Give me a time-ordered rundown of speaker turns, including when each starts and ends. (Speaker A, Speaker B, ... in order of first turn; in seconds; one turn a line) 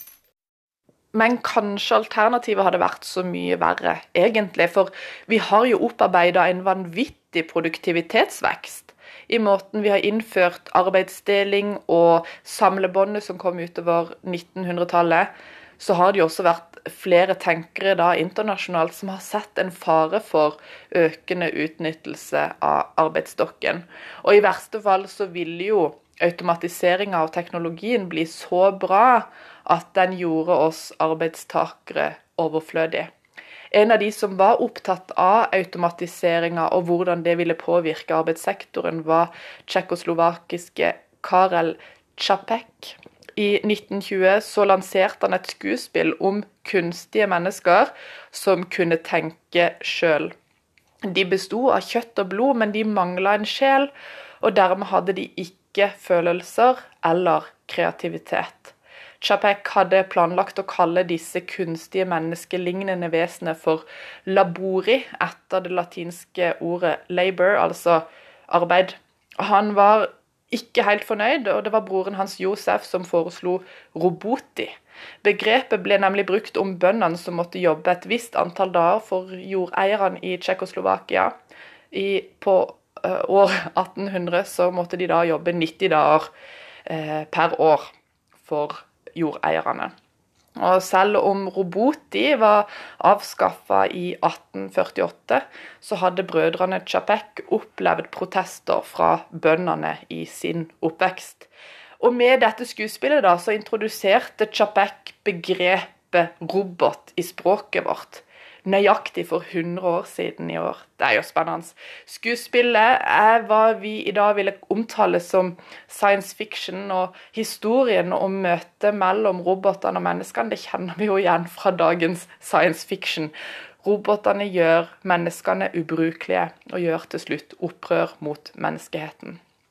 Speaker A: 1.1-33.1
Speaker A: 33.7-50.3
Speaker A: 51.1-53.9
Speaker A: 54.4-81.3
Speaker A: 81.9-86.3
Speaker A: 86.9-87.9
Speaker A: 88.4-89.9
Speaker A: 90.6-101.5
Speaker A: 102.0-129.4